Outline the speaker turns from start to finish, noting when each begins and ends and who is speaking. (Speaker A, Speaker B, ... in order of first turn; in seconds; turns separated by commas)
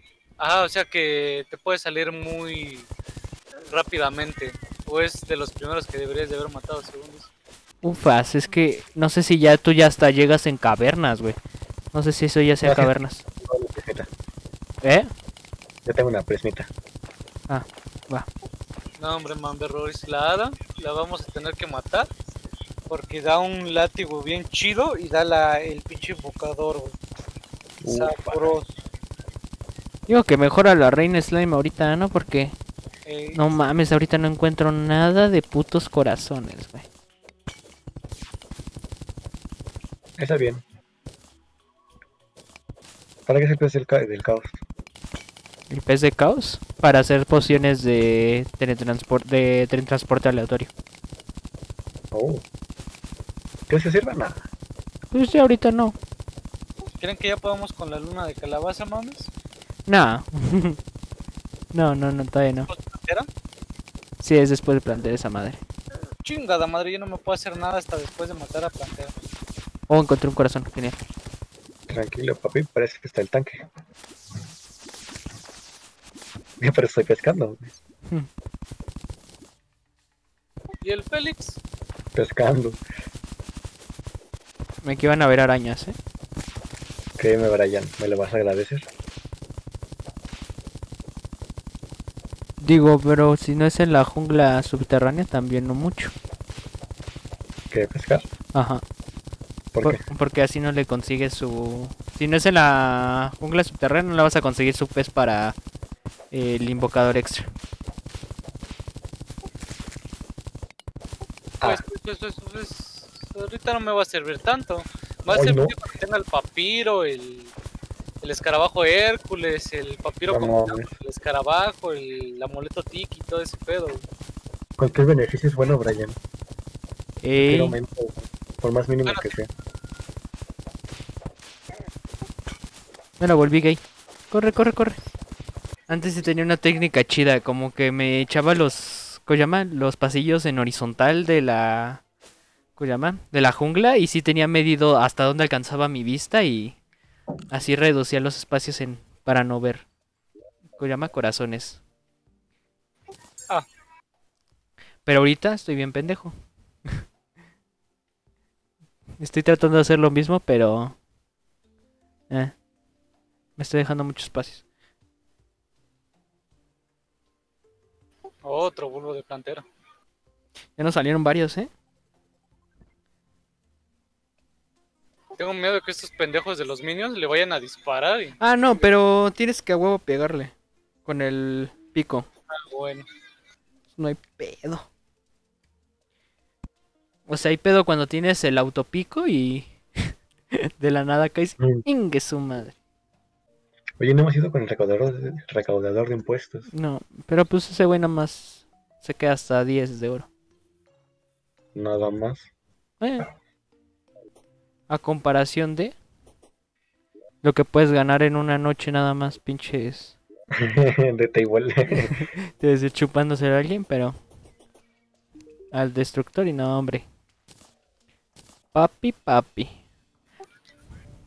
Speaker A: 0.4-2.9, Speaker A: 3.7-7.3, Speaker B: 7.8-11.4, Speaker B: 11.9-13.2, Speaker C: 12.6-14.1, Speaker B: 14.8-15.1, Speaker C: 15.8-16.7, Speaker B: 17.5-18.2, Speaker A: 19.0-22.1, Speaker A: 22.9-27.0, Speaker C: 27.8-28.6, Speaker A: 27.9-28.7, Speaker B: 30.1-32.5, Speaker A: 33.0-33.4, Speaker B: 33.3-36.9, Speaker C: 40.2-40.6, Speaker C: 43.3-44.6, Speaker B: 45.7-50.7, Speaker C: 52.1-52.4, Speaker C: 53.7-54.5, Speaker B: 55.1-56.0, Speaker A: 57.0-59.3, Speaker B: 59.9-60.8, Speaker B: 61.7-62.7, Speaker A: 62.7-63.3, Speaker B: 64.2-65.6, Speaker A: 66.2-69.1, Speaker B: 69.9-71.0, Speaker C: 71.9-73.7, Speaker C: 76.6-77.7, Speaker A: 80.8-81.6, Speaker C: 82.1-82.8, Speaker B: 84.8-86.0, Speaker C: 87.2-88.8, Speaker B: 92.6-96.1, Speaker C: 97.7-98.2, Speaker B: 98.5-98.8, Speaker C: 99.7-100.0, Speaker B: 99.8-105.5, Speaker B: 106.3-107.5, Speaker A: 111.6-117.5, Speaker C: 115.3-115.7, Speaker A: 118.2-124.0, Speaker C: 120.3-120.9, Speaker C: 124.8-126.2, Speaker B: 127.2-127.8, Speaker C: 127.3-129.5, Speaker B: 133.2-135.0, Speaker B: 135.9-142.0, Speaker B: 142.8-146.8, Speaker B: 147.5-149.8, Speaker B: 150.8-151.8, Speaker B: 155.0-156.3, Speaker B: 159.2-160.9, Speaker B: 163.6-164.6, Speaker A: 168.4-169.7, Speaker B: 170.8-171.7, Speaker A: 175.4-178.4, Speaker B: 178.4-180.5, Speaker B: 181.1-182.3, Speaker A: 182.5-183.1, Speaker B: 183.9-184.9, Speaker B: 187.3-190.2, Speaker B: 190.8-192.7, Speaker C: 191.6-191.8, Speaker C: 194.0-196.7, Speaker B: 196.7-200.3, Speaker C: 201.7-202.5, Speaker B: 203.0-203.3, Speaker B: 204.9-205.9, Speaker B: 207.4-210.2, Speaker C: 210.6-212.3, Speaker B: 212.6-214.2, Speaker B: 215.7-217.1, Speaker B: 218.7-219.8